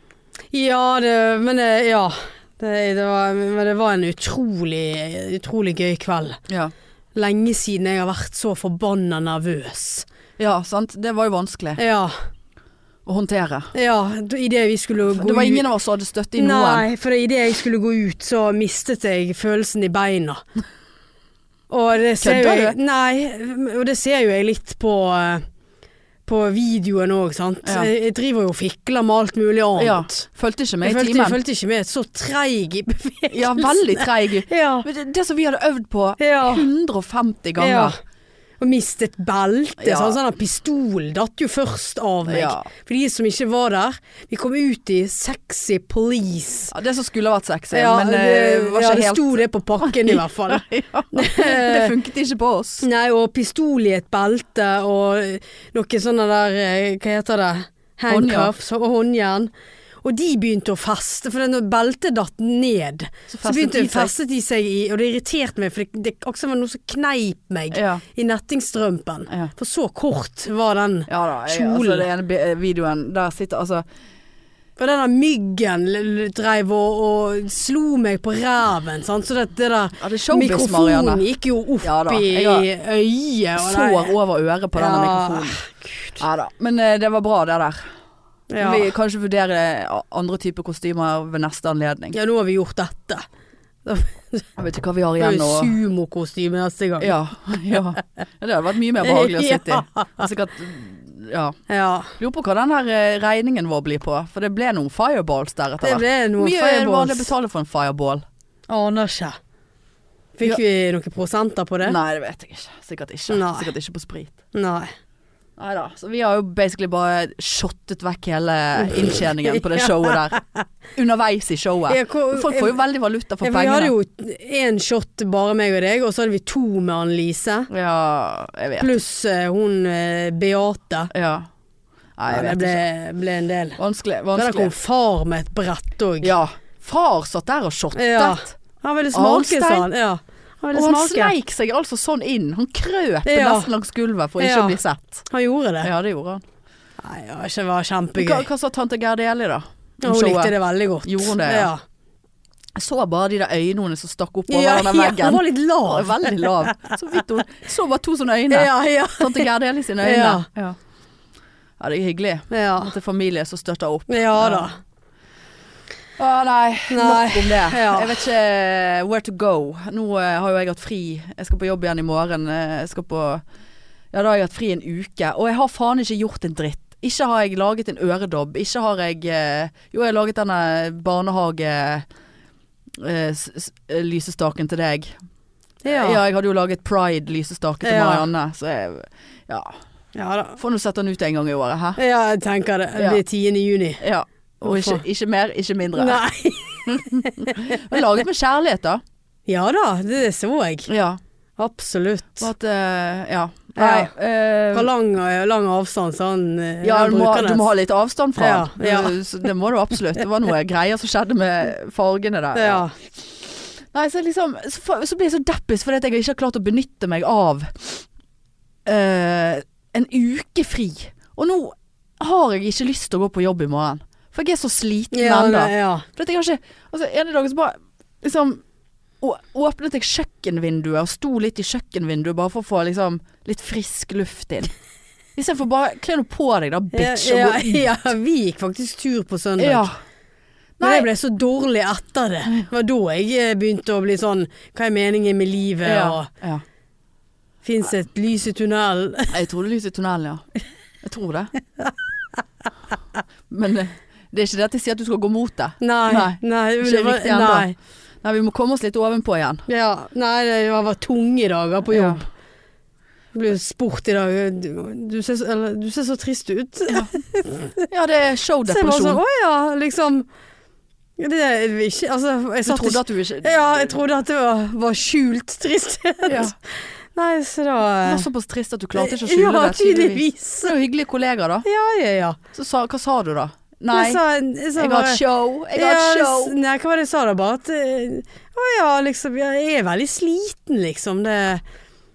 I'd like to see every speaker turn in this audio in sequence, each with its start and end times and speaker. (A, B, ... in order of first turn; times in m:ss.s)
0:00.5-0:06.4 A
0:06.5-0:06.7 B
0:07.1-0:10.0 A
0:10.4-0:11.8 B
0:11.8-0:12.1 A
0:13.0-0:13.7 B
0:13.7-0:15.6 A
0:15.1-0:16.8 B
0:16.4-0:20.4 A
0:21.7-0:25.4 A
0:22.2-0:22.8 B
0:26.2-0:30.3 A
0:29.8-0:31.4 B
0:30.8-0:34.9 A
0:33.3-0:37.9 B
0:36.2-0:36.7 A
0:37.6-0:38.0 A
0:38.6-0:46.7 A
0:39.8-0:40.2 B
0:42.3-0:42.6 B
0:46.7-0:52.8 B
0:47.7-0:51.9 A
0:52.8-0:59.5 A
0:58.1-0:58.5 B
1:00.0-1:12.0 A
1:03.3-1:04.1 B
1:07.7-1:08.0 B
1:11.1-1:13.8 B
1:14.8-1:24.1 A
1:20.0-1:21.2 B
1:21.8-1:22.7 B
1:23.6-1:25.6 B
1:24.8-1:26.2 A
1:26.2-1:27.9 B
1:28.5-1:28.9 A
1:28.6-1:32.2 B
1:32.1-1:33.2 A
1:33.8-1:34.5 A
1:34.6-1:35.7 B
1:35.2-1:37.1 A
1:37.0-1:41.6 B
1:39.0-1:40.3 A
1:41.7-1:42.1 A
1:42.2-1:48.2 B
1:45.8-1:47.3 A
1:48.7-1:49.4 A
1:50.4-1:52.0 A
1:51.8-1:54.4 B
1:53.3-1:53.7 A
1:54.5-1:54.9 A
1:55.6-2:00.4 B
1:59.0-2:00.6 A
2:00.9-2:03.9 B
2:01.9-2:02.8 A
2:03.4-2:07.7 A
2:07.7-2:09.0 B
2:08.8-2:11.1 A
2:11.1-2:11.5 B
2:12.2-2:12.8 B
2:12.3-2:13.8 A
2:13.8-2:14.7 B
2:14.3-2:16.3 A
2:16.2-2:18.5 B
2:17.9-2:21.3 A
2:19.1-2:19.9 B
2:20.7-2:25.2 B
2:23.2-2:23.7 A
2:24.4-2:25.9 A
2:25.8-2:26.4 B
2:27.0-2:28.4 A
2:28.2-2:31.7 B
2:30.0-2:31.8 A
2:32.8-2:40.8 B
2:34.5-2:36.9 A
2:38.5-2:39.5 A
2:40.0-2:40.5 A
2:41.8-2:44.7 B
2:42.5-2:42.9 A
2:44.1-2:44.8 A
2:46.2-2:53.4 B
2:46.9-2:48.2 A
2:54.1-3:02.0 B
3:03.0-3:05.1 B
3:05.8-3:06.2 A
3:05.9-3:09.8 B
3:07.8-3:08.3 A
3:10.1-3:10.6 A
3:10.6-3:12.0 B
3:12.0-3:14.0 A
3:13.0-3:13.2 B
3:14.0-3:16.2 B
3:14.6-3:15.0 A
3:16.0-3:17.8 A
3:16.8-3:19.0 B
3:19.5-3:20.9 A
3:20.9-3:21.2 B
3:21.6-3:22.5 A
3:22.4-3:24.9 B
3:23.8-3:24.1 A
3:24.7-3:27.6 A
3:26.8-3:32.8 B
3:28.4-3:29.2 A
3:32.5-3:32.9 A
3:33.9-3:38.0 B
3:38.8-3:48.6 B
3:45.1-3:46.0 A
3:49.2-3:54.7 B
3:55.4-3:57.9 B
3:56.9-3:59.9 A
3:59.6-4:00.0 B
4:00.8-4:01.1 B
4:00.8-4:06.3 A
4:05.8-4:06.6 B
4:07.6-4:09.4 A
4:09.3-4:10.4 B
4:11.0-4:11.5 B
4:13.5-4:17.7 B
4:15.8-4:17.7 A
4:18.2-4:19.6 B
4:19.7-4:22.2 A
4:21.9-4:22.2 B
4:23.3-4:27.8 A
4:27.9-4:29.2 B
4:28.7-4:30.2 A
4:31.2-4:38.2 A
4:32.6-4:33.5 B
4:36.2-4:36.5 B
4:38.0-4:41.6 B
4:38.9-4:40.7 A
4:41.6-4:42.4 A
4:42.5-4:44.2 B
4:43.9-4:45.2 A
4:44.8-4:46.5 B
4:45.7-4:51.6 A